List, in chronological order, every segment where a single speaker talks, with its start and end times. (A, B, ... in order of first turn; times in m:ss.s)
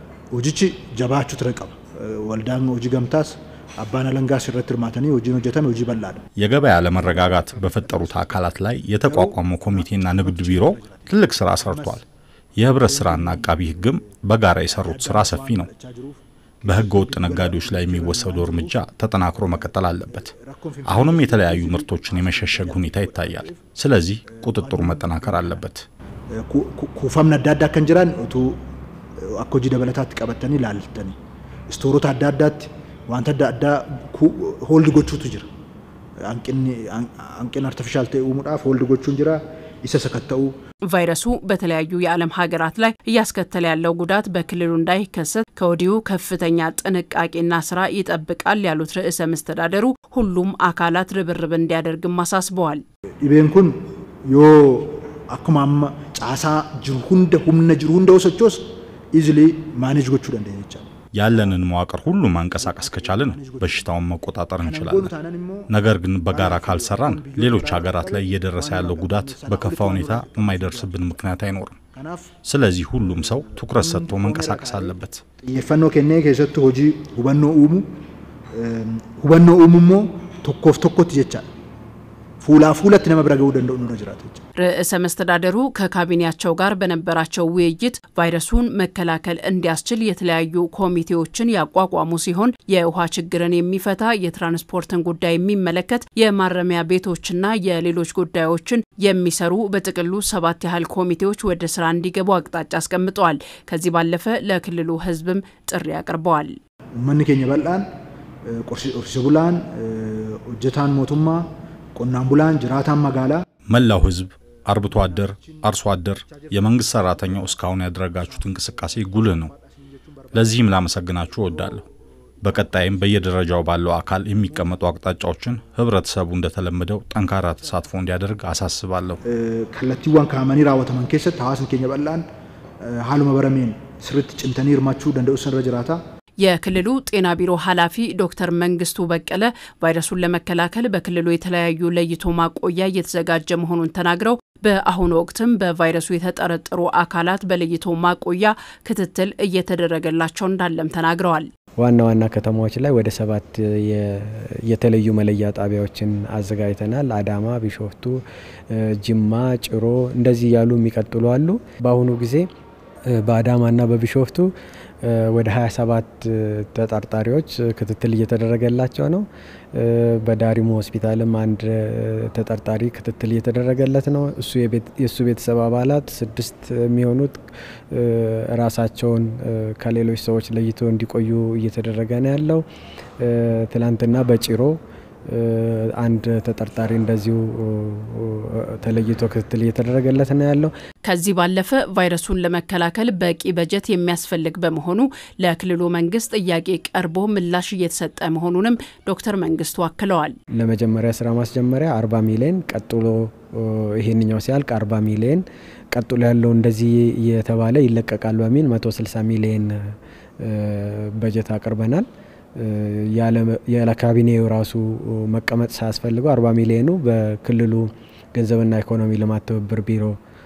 0:00.3-0:06.2 A
0:06.4-0:12.0 B
0:06.9-0:08.5 A
0:09.0-0:12.0 A
0:12.6-0:15.7 B
0:12.7-0:14.1 A
0:14.7-0:18.8 A
0:16.6-0:20.3 B
0:19.4-0:23.7 A
0:20.8-0:25.8 B
0:24.3-0:25.6 A
0:26.3-0:28.6 A
0:29.2-0:31.2 A
0:31.7-0:35.5 A
0:36.2-0:40.5 A
0:40.9-0:52.8 C
0:53.2-1:01.6 A
1:01.2-1:05.1 B
1:02.2-1:03.9 A
1:04.6-1:05.7 A
1:05.7-1:11.8 B
1:06.3-1:11.1 A
1:11.9-1:12.4 A
1:12.4-1:15.2 B
1:13.0-1:18.0 A
1:18.5-1:21.5 A
1:22.4-1:24.4 A
1:24.6-1:46.6 C
1:47.0-1:47.9 A
1:48.5-1:53.4 A
1:53.7-1:59.5 B
1:54.7-2:01.9 A
2:00.3-2:01.8 B
2:02.4-2:03.4 A
2:02.4-2:09.2 B
2:04.4-2:04.8 A
2:07.5-2:08.0 A
2:09.2-2:12.2 A
2:12.8-2:16.0 A
2:16.4-2:31.5 C
2:31.8-2:42.5 D
2:43.1-2:44.5 D
2:45.0-2:57.4 D
2:57.9-3:02.6 D
3:03.2-3:04.8 D
3:05.3-3:10.7 D
3:11.0-3:20.4 C
3:20.6-3:32.1 D
3:32.6-3:40.2 D